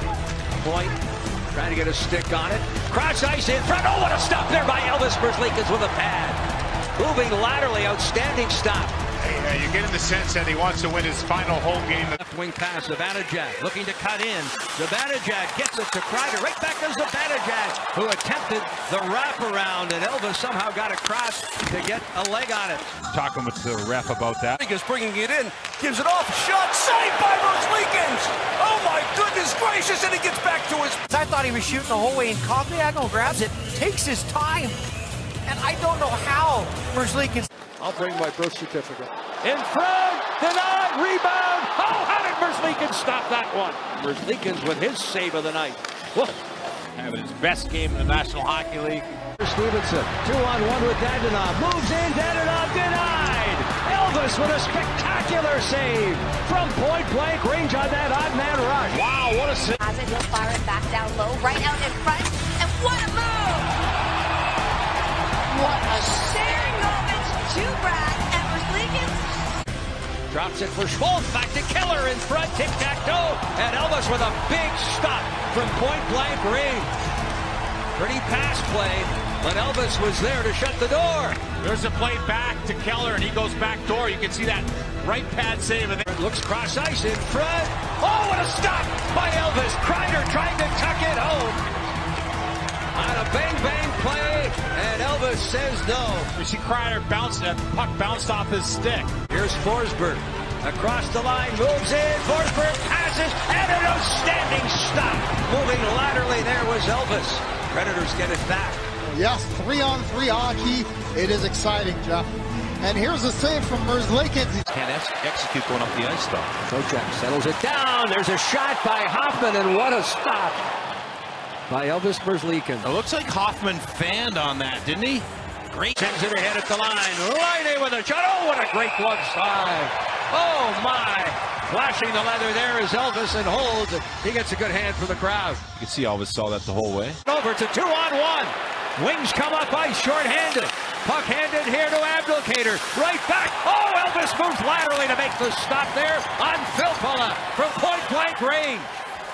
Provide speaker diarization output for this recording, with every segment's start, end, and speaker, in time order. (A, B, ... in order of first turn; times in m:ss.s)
0:00.6-0:01.0 A
0:01.5-0:06.4 A
0:07.0-0:09.0 A
0:09.2-0:12.2 B
0:12.2-0:22.9 A
0:23.1-0:24.6 B
0:24.6-0:31.0 C
0:31.1-0:34.8 D
0:35.4-0:37.5 D
0:37.8-0:46.4 A
0:47.0-0:49.1 B
0:49.4-0:59.0 A
0:58.9-0:59.8 B
0:59.8-1:03.7 E
1:05.5-1:09.3 E
1:10.3-1:16.9 A
1:18.0-1:21.4 A
1:21.6-1:26.0 B
1:26.1-1:31.6 A
1:32.9-1:36.3 A
1:36.4-1:39.1 B
1:39.3-1:48.8 A
1:49.1-1:52.3 F
1:52.8-1:54.6 F
1:54.7-1:56.5 G
1:56.7-2:00.6 A
2:01.7-2:02.9 A
2:02.9-2:05.9 G
2:05.9-2:15.6 A
2:15.8-2:17.2 G
2:17.3-2:28.9 A